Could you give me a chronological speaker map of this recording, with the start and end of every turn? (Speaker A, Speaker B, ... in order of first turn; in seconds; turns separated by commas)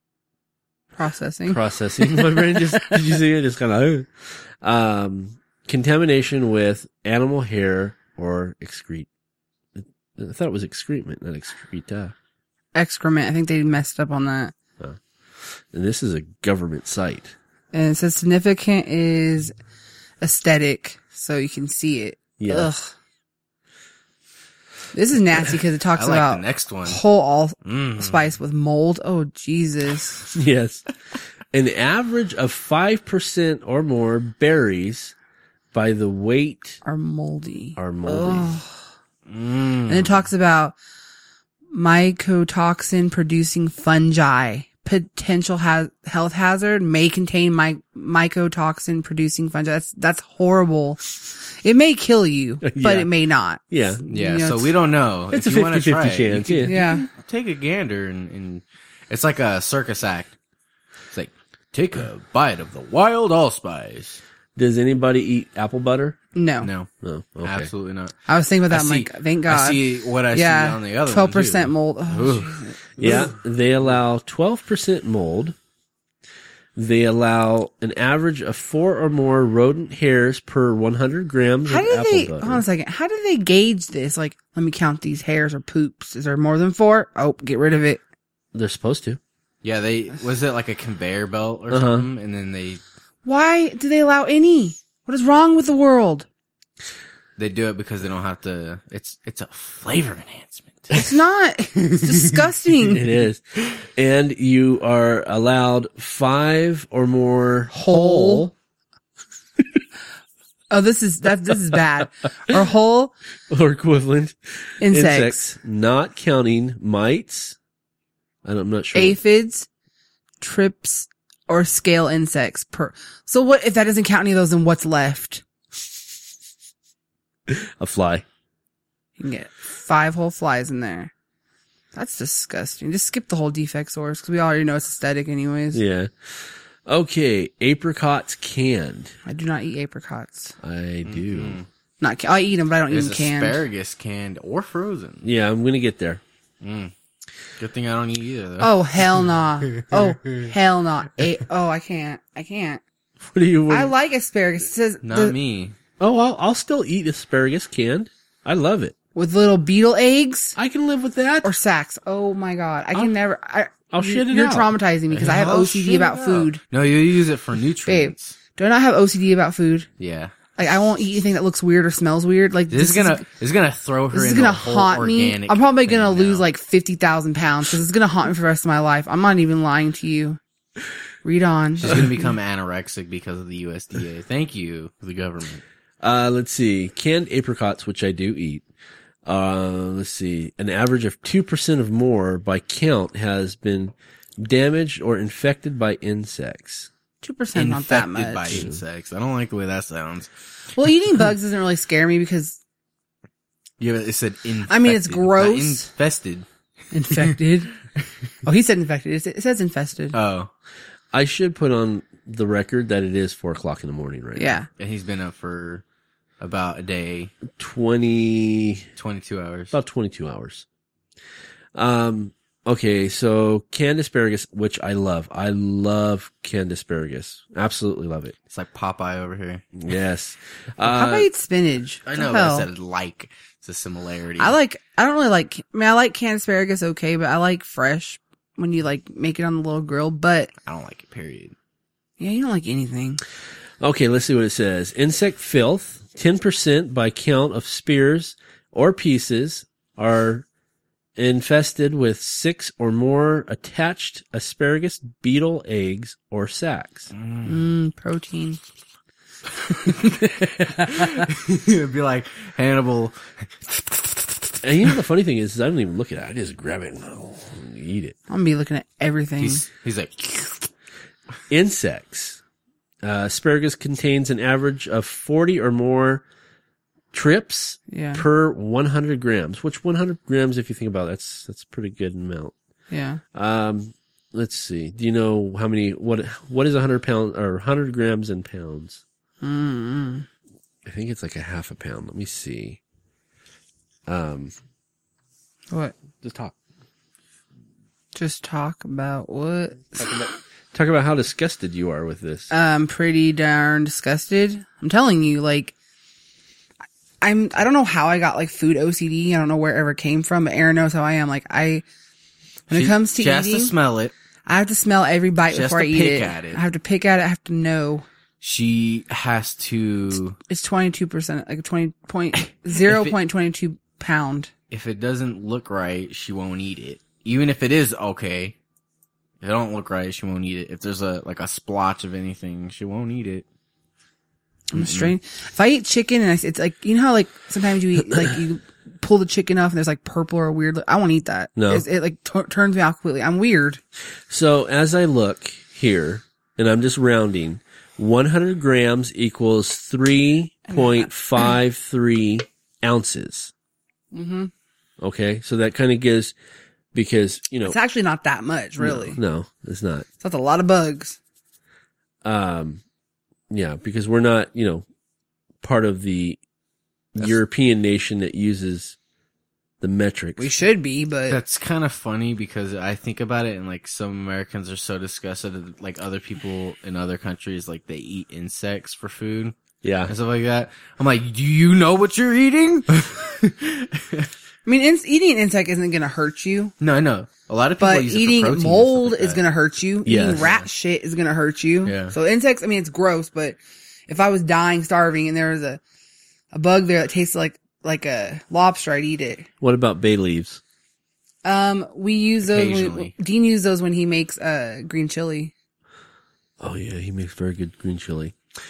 Speaker A: 0.9-1.6, Speaker B: 1.5-9.1, Speaker B: 9.8-12.1, Speaker A: 12.7-14.5, Speaker B: 14.8-17.3, Speaker A: 17.7-19.5, Speaker A: 20.2-22.9, Speaker B: 22.4-22.7, Speaker A: 24.9-30.2, Speaker C: 25.9-27.0, Speaker C: 27.6-28.2, Speaker B: 30.3-30.8, Speaker B: 31.5-35.1, Speaker B: 35.7-36.8, Speaker A: 36.8-38.7, Speaker B: 37.8-38.6, Speaker C: 39.3-40.2, Speaker A: 39.9-40.8, Speaker A: 41.7-54.7, Speaker B: 52.6-53.1, Speaker B: 53.7-54.0, Speaker C: 54.1-60.4, Speaker B: 55.3-56.8, Speaker A: 56.6-57.1, Speaker C: 61.1-64.2, Speaker B: 64.5-66.2, Speaker A: 66.3-66.7, Speaker C: 66.6-66.9, Speaker B: 67.0-67.7, Speaker C: 67.4-68.2, Speaker A: 68.2-73.3, Speaker C: 68.7-73.2, Speaker B: 73.0-75.5, Speaker B: 76.8-82.6, Speaker A: 81.7-88.0, Speaker B: 88.5-89.2, Speaker C: 89.6-92.8, Speaker B: 91.7-92.1, Speaker A: 93.2-96.3, Speaker C: 97.4-100.9, Speaker A: 100.9-103.1, Speaker B: 102.9-108.5, Speaker A: 107.7-108.5, Speaker A: 110.7-113.1, Speaker B: 113.5-117.6, Speaker A: 114.8-115.4, Speaker B: 118.4-119.2, Speaker A: 118.9-119.7, Speaker A: 120.4-125.4, Speaker B: 127.5-128.2, Speaker A: 129.2-131.1, Speaker A: 131.9-135.8, Speaker B: 135.7-139.1, Speaker A: 139.2-140.6, Speaker B: 140.6-141.6, Speaker C: 141.0-141.7, Speaker A: 142.0-143.6, Speaker C: 142.9-145.3, Speaker B: 145.2-146.2, Speaker C: 146.6-146.9, Speaker C: 147.6-148.7, Speaker A: 148.6-152.8, Speaker C: 149.7-150.5, Speaker B: 153.2-153.9, Speaker A: 153.7-155.3, Speaker C: 155.0-155.8, Speaker B: 156.0-158.9, Speaker A: 159.1-160.6, Speaker B: 160.6-161.5, Speaker A: 161.4-166.6, Speaker B: 163.9-164.7, Speaker C: 165.1-168.4, Speaker A: 167.8-169.9, Speaker C: 170.0-170.3, Speaker A: 170.6-173.2, Speaker C: 172.7-176.4, Speaker A: 174.1-180.4, Speaker A: 181.2-182.1, Speaker C: 181.8-185.6, Speaker B: 186.0-188.6, Speaker B: 189.2-196.9, Speaker A: 197.2-198.7, Speaker C: 197.5-200.3, Speaker B: 198.5-198.8, Speaker A: 200.7-202.6, Speaker C: 203.8-206.4, Speaker A: 204.7-205.9, Speaker A: 206.9-207.7, Speaker A: 208.4-210.1, Speaker C: 210.1-210.5, Speaker B: 211.1-214.5, Speaker A: 214.4-214.7, Speaker C: 214.8-215.8, Speaker C: 216.4-217.3, Speaker B: 217.5-218.9, Speaker C: 218.9-219.8, Speaker B: 219.7-220.7, Speaker B: 221.7-228.3, Speaker C: 228.5-229.6, Speaker B: 229.7-231.3, Speaker A: 230.8-232.7, Speaker C: 232.1-234.5, Speaker A: 234.4-240.5, Speaker C: 240.6-241.6, Speaker A: 242.2-243.2, Speaker B: 243.8-250.4, Speaker B: 251.2-257.1, Speaker C: 257.1-257.6, Speaker A: 257.4-258.6, Speaker C: 260.8-264.5, Speaker B: 264.6-268.2, Speaker A: 268.3-269.6, Speaker C: 269.4-270.7, Speaker B: 271.5-272.4, Speaker B: 273.0-276.2, Speaker B: 277.1-282.5, Speaker A: 277.9-278.2, Speaker A: 282.9-283.2, Speaker B: 283.3-289.0, Speaker A: 289.4-290.3, Speaker B: 290.8-292.8, Speaker B: 294.1-294.5, Speaker A: 295.7-295.9, Speaker B: 296.2-296.5, Speaker A: 298.1-300.2, Speaker B: 300.0-302.5, Speaker A: 302.5-305.7, Speaker A: 307.2-311.8, Speaker A: 312.7-313.7, Speaker C: 312.7-314.1, Speaker A: 314.4-318.1, Speaker C: 315.5-316.6, Speaker C: 318.4-320.4, Speaker A: 320.5-324.5, Speaker C: 322.4-323.1, Speaker C: 324.7-328.6, Speaker C: 329.4-333.4, Speaker A: 334.7-343.8, Speaker C: 334.7-335.1, Speaker B: 341.6-341.9, Speaker B: 344.3-353.5, Speaker A: 350.7-351.1, Speaker A: 354.1-354.5, Speaker B: 355.0-356.3, Speaker B: 356.9-357.8, Speaker A: 357.6-359.2, Speaker B: 358.8-360.1, Speaker A: 360.2-361.2, Speaker B: 362.2-362.8, Speaker B: 363.5-364.8, Speaker B: 365.6-366.4, Speaker B: 367.1-369.0, Speaker B: 369.8-370.5, Speaker A: 370.4-371.4, Speaker C: 371.3-384.3, Speaker B: 379.8-380.1, Speaker A: 384.6-386.7, Speaker C: 386.8-389.4, Speaker A: 387.8-395.8, Speaker B: 390.0-390.5, Speaker C: 390.4-390.7, Speaker C: 391.8-392.1, Speaker A: 396.5-399.5, Speaker B: 399.6-400.6, Speaker A: 401.4-405.5, Speaker C: 402.4-403.1, Speaker B: 406.6-408.4